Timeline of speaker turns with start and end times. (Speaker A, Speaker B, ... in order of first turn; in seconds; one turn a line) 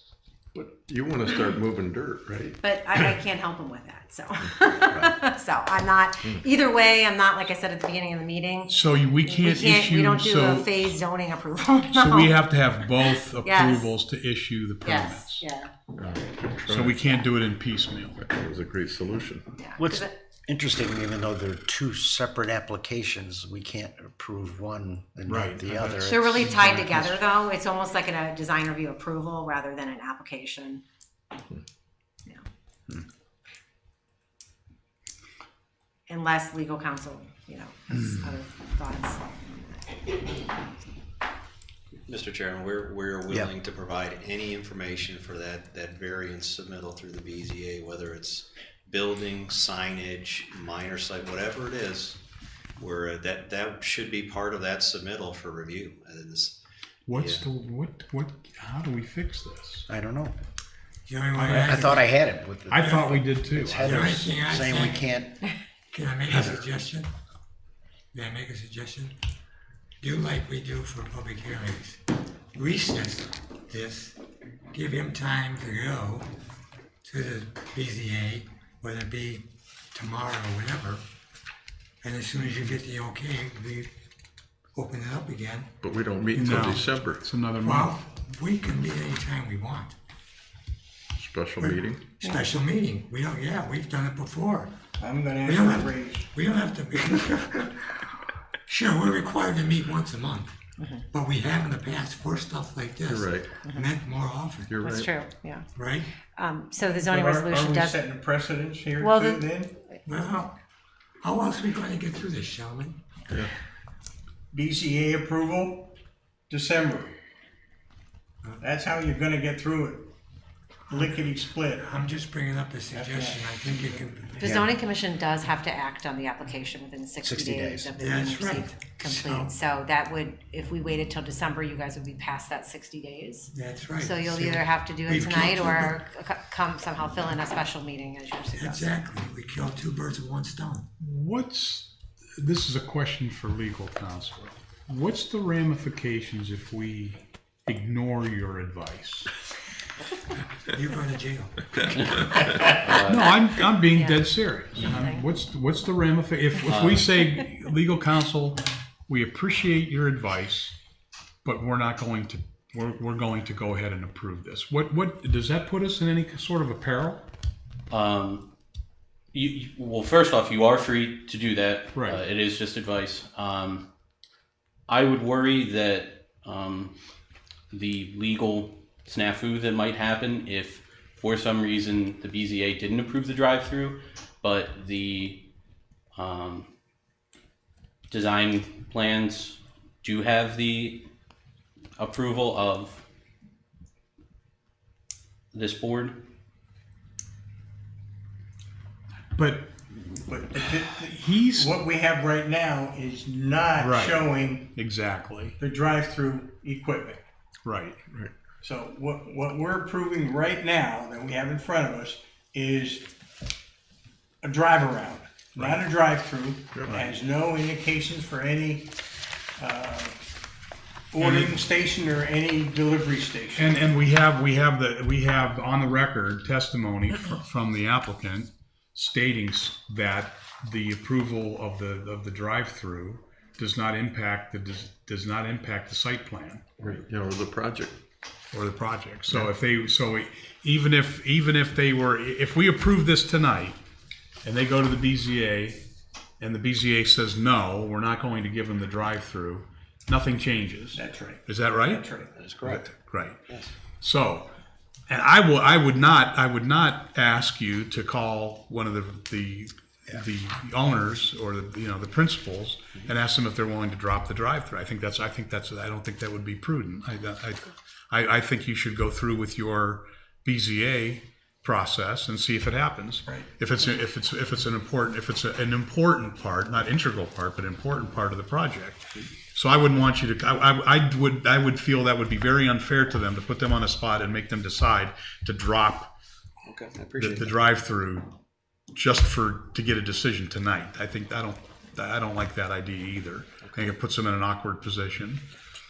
Speaker A: 0.5-2.6
Speaker B: 2.6-12.4
Speaker C: 8.7-10.8
Speaker C: 11.9-15.5
Speaker B: 13.4-13.9
Speaker B: 14.8-15.7
Speaker A: 16.0-17.0
Speaker C: 16.6-18.2
Speaker A: 18.2-19.4
Speaker B: 19.6-20.1
Speaker D: 19.8-26.9
Speaker C: 25.3-27.1
Speaker B: 26.0-30.8
Speaker B: 36.1-40.2
Speaker E: 42.0-52.2
Speaker E: 52.8-56.6
Speaker C: 57.1-59.9
Speaker E: 57.1-57.4
Speaker D: 59.9-60.3
Speaker F: 61.0-62.1
Speaker C: 61.4-61.7
Speaker D: 61.6-65.3
Speaker C: 62.7-64.3
Speaker F: 63.8-65.1
Speaker F: 65.9-67.1
Speaker F: 68.1-69.2
Speaker F: 70.0-72.0
Speaker F: 72.5-74.2
Speaker F: 74.7-76.3
Speaker F: 77.0-81.0
Speaker F: 82.0-83.9
Speaker F: 84.7-85.7
Speaker A: 85.8-87.3
Speaker C: 86.3-87.9
Speaker F: 87.6-89.9
Speaker A: 91.2-92.0
Speaker F: 91.6-94.7
Speaker G: 95.0-96.3
Speaker F: 95.4-100.6
Speaker F: 101.1-104.8
Speaker A: 103.0-103.5
Speaker B: 103.6-103.9
Speaker A: 104.7-105.1
Speaker B: 104.8-105.7
Speaker F: 105.7-106.1
Speaker B: 106.3-108.0
Speaker G: 107.0-109.8
Speaker B: 109.0-109.4
Speaker F: 110.0-110.5
Speaker F: 111.2-113.1
Speaker G: 114.5-115.9
Speaker G: 116.5-117.1
Speaker G: 118.6-120.1
Speaker G: 120.9-121.8
Speaker F: 120.9-124.5
Speaker G: 122.9-123.9
Speaker B: 124.4-138.9
Speaker D: 124.4-124.7
Speaker D: 127.2-127.9
Speaker F: 128.0-129.6
Speaker F: 133.5-136.0
Speaker F: 138.5-140.8
Speaker C: 141.0-149.3
Speaker F: 150.6-151.7
Speaker H: 152.1-153.2
Speaker C: 153.0-160.7
Speaker B: 153.9-155.2
Speaker H: 156.6-157.1
Speaker C: 161.4-167.3
Speaker H: 167.9-168.5
Speaker H: 169.3-173.9
Speaker C: 171.9-172.2
Speaker H: 174.9-177.0
Speaker H: 177.7-185.5
Speaker H: 186.1-186.7
Speaker H: 188.1-191.1
Speaker H: 192.0-193.0
Speaker H: 195.5-196.3
Speaker C: 199.3-199.8
Speaker G: 200.3-204.7
Speaker C: 201.1-201.8
Speaker C: 203.8-205.6
Speaker G: 205.6-207.2
Speaker C: 207.6-208.0
Speaker G: 208.6-213.1
Speaker G: 214.4-218.9
Speaker C: 216.8-217.2
Speaker G: 219.6-220.2
Speaker G: 221.1-223.6
Speaker C: 221.2-221.6
Speaker C: 223.5-236.9
Speaker A: 236.8-238.0
Speaker C: 238.5-243.8
Speaker C: 244.4-245.8
Speaker C: 246.4-252.1
Speaker G: 250.9-252.3
Speaker E: 252.2-252.9
Speaker C: 252.6-254.5
Speaker C: 255.1-286.1
Speaker E: 286.7-287.5
Speaker C: 287.1-288.3
Speaker C: 288.9-295.4
Speaker E: 293.6-293.9